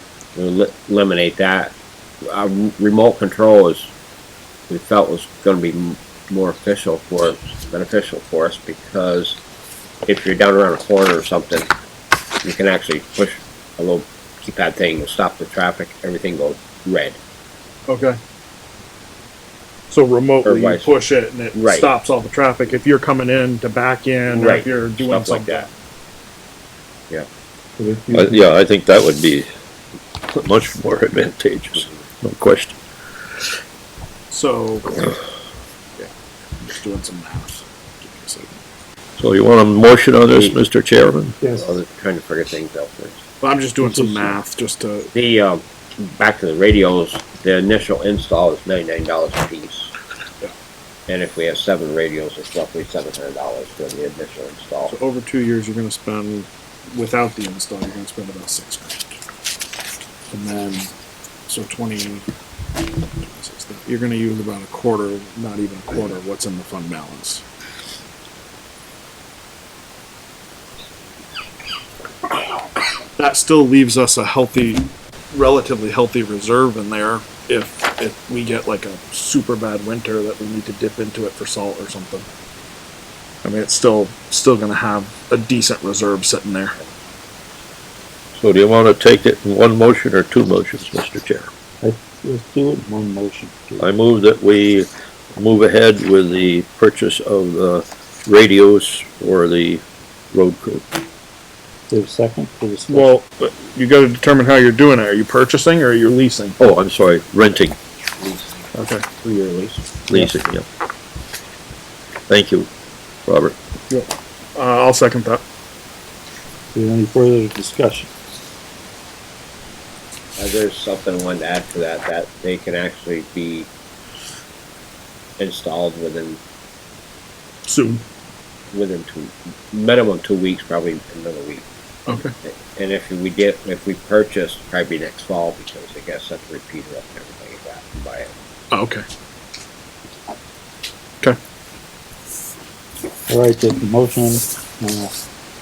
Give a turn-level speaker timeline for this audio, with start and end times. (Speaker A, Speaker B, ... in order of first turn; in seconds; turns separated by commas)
Speaker A: 0.4-3.9, Speaker A: 4.7-9.4, Speaker A: 10.1-11.7, Speaker A: 12.4-17.2, Speaker B: 17.9-18.2, Speaker B: 19.9-25.7, Speaker A: 20.4-20.9, Speaker A: 21.5-21.9, Speaker A: 24.3-25.7, Speaker C: 28.1-29.5, Speaker C: 30.3-32.8, Speaker A: 31.8-32.0, Speaker B: 34.3-35.1, Speaker B: 36.0-38.6, Speaker C: 39.2-41.4, Speaker A: 40.3-40.6, Speaker A: 41.4-43.2, Speaker B: 43.4-45.1, Speaker D: 43.8-44.4, Speaker A: 45.1-49.9, Speaker A: 51.1-55.0, Speaker B: 54.9-59.1, Speaker B: 60.3-60.9, Speaker B: 61.5-62.3, Speaker B: 63.2-67.4, Speaker B: 73.2-82.3, Speaker B: 83.4-86.8, Speaker C: 88.3-91.5, Speaker D: 91.8-93.9, Speaker C: 93.8-100.9, Speaker D: 101.9-103.1, Speaker B: 102.9-106.6, Speaker C: 106.6-107.8, Speaker A: 108.2-110.3, Speaker B: 108.8-109.0, Speaker C: 110.1-110.7, Speaker C: 112.3-112.7, Speaker C: 113.3-113.6, Speaker B: 113.9-115.4, Speaker D: 116.7-118.1, Speaker A: 120.4-123.7, Speaker A: 125.4-126.4, Speaker B: 127.7-128.0, Speaker A: 128.7-131.7, Speaker B: 132.1-132.3, Speaker A: 132.4-138.3, Speaker B: 138.7-139.1, Speaker D: 143.3-145.1